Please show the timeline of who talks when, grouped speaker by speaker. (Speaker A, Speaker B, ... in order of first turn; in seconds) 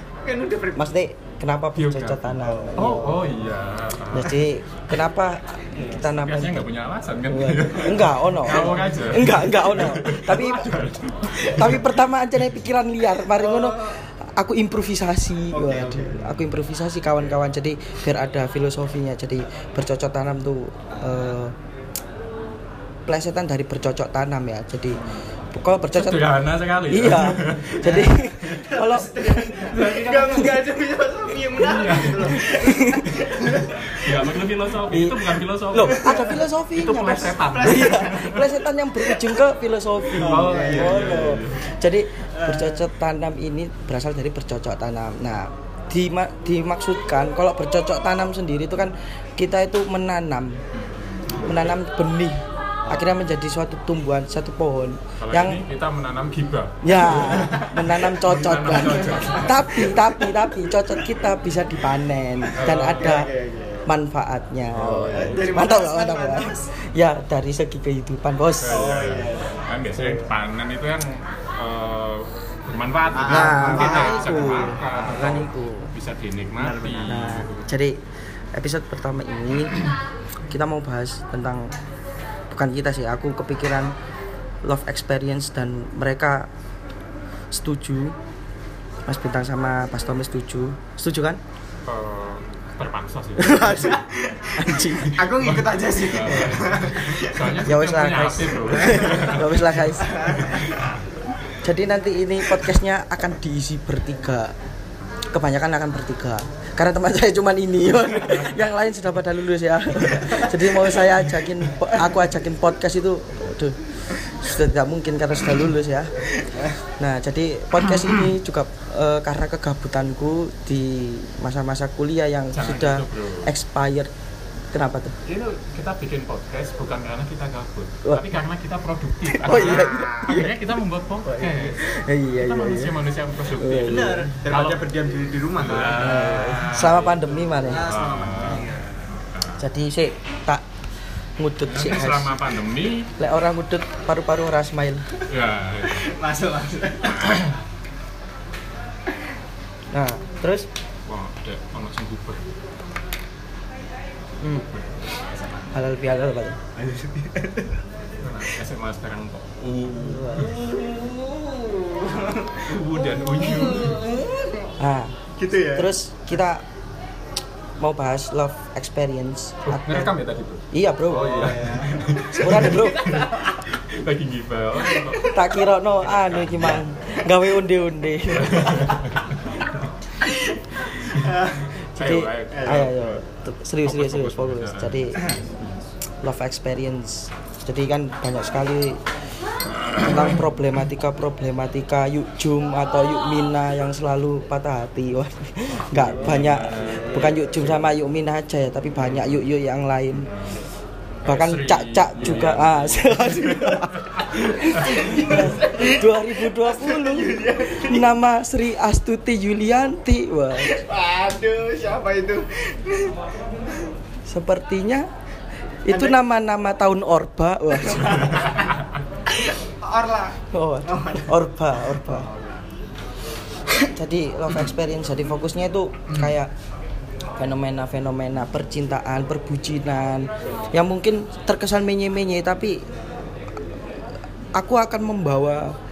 Speaker A: 0.2-0.9, 2.4-3.3, 8.6-8.9, 13.3-14.0, 15.5-16.5, 20.9-21.3, 25.0-25.2, 27.8-34.3, 35.8-36.4, 37.5-38.5, 40.1-41.4, 42.3-42.9, 50.7-51.7, 52.8-53.2, 57.0-57.9, 59.1-60.3, 62.6-63.9, 65.1-66.7, 68.6-69.7, 73.1-75.4, 76.6-77.5, 93.6-97.6, 98.9-99.2, 100.0-100.9, 116.3-116.7, 117.8-118.3, 129.4-130.4, 133.8-137.1, 137.6-139.2, 145.8-147.4, 155.2-155.7, 156.7-157.8, 160.3-164.7, 165.3-165.9, 171.1-173.6, 174.8-175.5, 178.7-178.9, 180.2-181.7, 182.5-182.9, 195.9-197.8, 204.2-208.1, 210.6-213.2, 215.9-216.2, 217.8-218.7, 219.3-222.7
Speaker B: 0.7-3.0, 4.1-6.6, 7.3-21.5, 23.1-26.3, 26.9-30.5, 32.4-33.2, 34.9-50.6, 51.4-55.6, 56.8-63.3, 63.9-68.9, 69.9-70.3, 73.3-75.9, 77.1-78.0, 78.5-79.8, 80.5-81.7, 82.5-83.9, 84.6-86.5, 87.5-88.1, 89.1-91.4, 93.4-94.0, 94.6-95.2, 97.6-100.2, 101.6-104.5, 105.3-116.2, 117.0-124.1, 124.7-125.2, 129.3-130.5, 131.3-132.9, 133.6-134.3, 136.0-137.8, 139.6-140.6, 141.4-142.3, 143.2-145.1, 149.9-150.7, 155.7-156.6, 160.1-160.5, 164.8-165.2, 165.7-166.6, 167.8-170.2, 170.7-171.5, 172.3-173.2, 175.2-179.0, 181.9-185.3, 186.2-189.0, 189.9-200.3, 201.2-210.8, 214.3-215.1, 215.8-218.6, 220.5-222.3, 223.9-226.5, 227.4-232.8, 234.5-235.8
Speaker C: 1.8-4.4, 6.0-11.9, 25.9-28.6, 29.5-30.3, 31.6-32.5, 33.9-38.5, 40.1-41.6, 55.2-57.4, 58.0-59.9, 62.5-63.1, 64.7-65.5, 68.6-77.5, 91.8-93.7, 95.2-99.8, 100.3-100.9, 122.5-123.5, 125.2-131.8, 132.4-134.8, 135.6-139.6, 141.7-143.1, 145.3-146.1, 151.1-152.6, 158.2-160.5, 162.6-164.0, 169.6-175.3, 176.3-176.8, 178.3-179.6, 181.9-183.2, 183.8-185.8, 195.9-197.1, 201.2-205.0